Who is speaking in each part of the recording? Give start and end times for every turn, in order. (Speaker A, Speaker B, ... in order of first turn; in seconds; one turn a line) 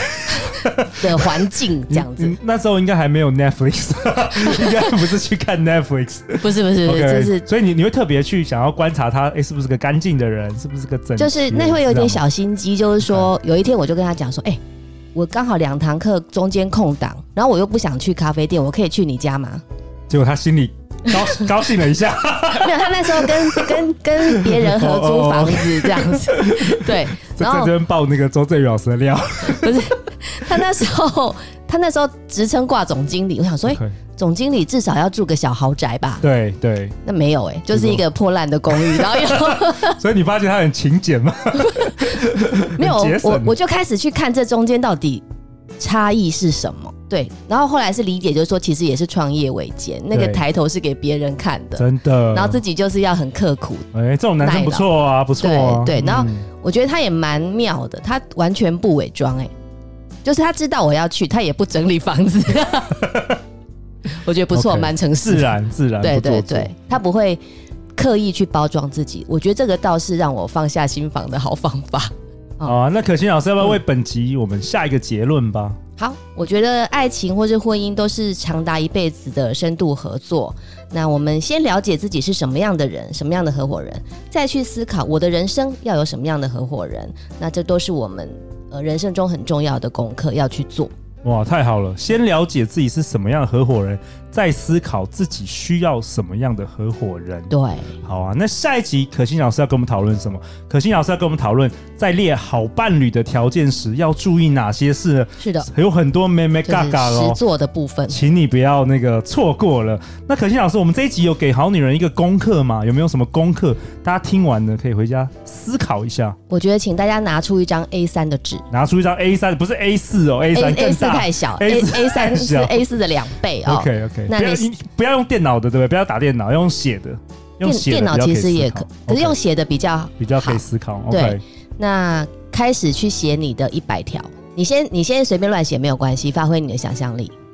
Speaker A: 0.3-1.3
Speaker B: 1.0-2.4
Speaker A: 1.9-12.2
Speaker B: 6.4-7.5
Speaker B: 11.2-14.6
Speaker A: 13.0-13.3
Speaker B: 15.1-19.6
Speaker A: 20.1-30.6
Speaker B: 22.6-27.7
Speaker B: 29.6-36.2
Speaker A: 33.7-34.0
Speaker A: 36.2-37.0
Speaker B: 37.0-40.0
Speaker A: 37.7-38.0
Speaker A: 38.7-43.5
Speaker B: 41.6-41.9
Speaker B: 42.8-45.2
Speaker B: 45.8-53.9
Speaker A: 50.1-50.4
Speaker A: 51.8-52.6
Speaker A: 53.9-56.5
Speaker B: 54.4-59.5
Speaker B: 60.2-63.0
Speaker A: 63.0-63.4
Speaker B: 64.2-67.4
Speaker A: 64.5-66.7
Speaker B: 68.0-72.8
Speaker A: 72.6-75.8
Speaker B: 76.0-90.9
Speaker A: 91.2-97.5
Speaker B: 97.5-98.0
Speaker A: 98.0-107.4
Speaker B: 105.4-105.7
Speaker B: 106.6-108.2
Speaker A: 108.1-116.4
Speaker B: 116.5-118.7
Speaker A: 118.7-122.8
Speaker B: 120.5-124.7
Speaker A: 123.6-129.4
Speaker B: 127.6-137.3
Speaker A: 130.2-131.4